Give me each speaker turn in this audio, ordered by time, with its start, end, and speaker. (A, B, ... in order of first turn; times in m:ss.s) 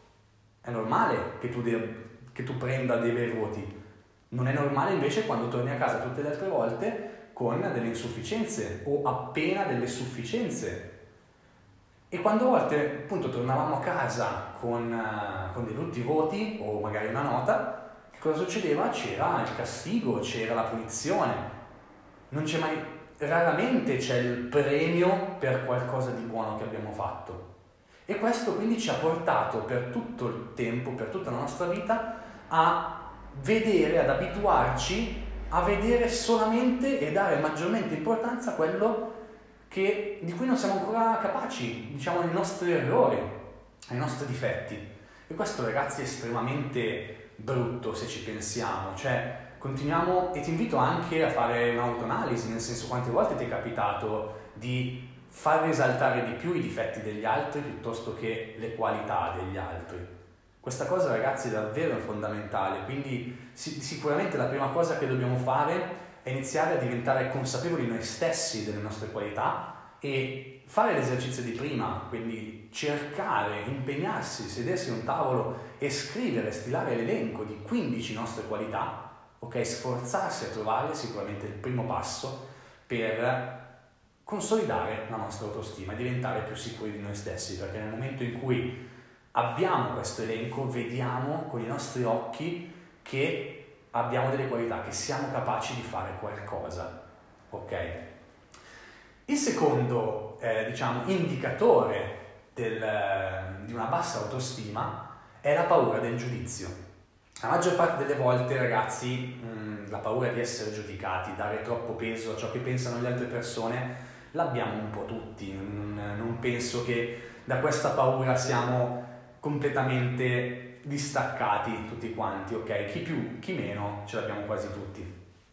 0:00.6-0:03.7 A
0:04.3-0:10.9 A
0:12.1-0:21.5 A
0:22.3-0:27.4 A
0:28.1-0:39.1 A
0:39.7-0:43.3 A
0:43.9-1:00.1 A
1:00.6-1:23.6 A
1:24.2-1:28.7 A
1:29.3-1:36.9 A
1:37.5-1:38.0 A
1:39.3-1:46.8 A
1:47.4-2:05.1 A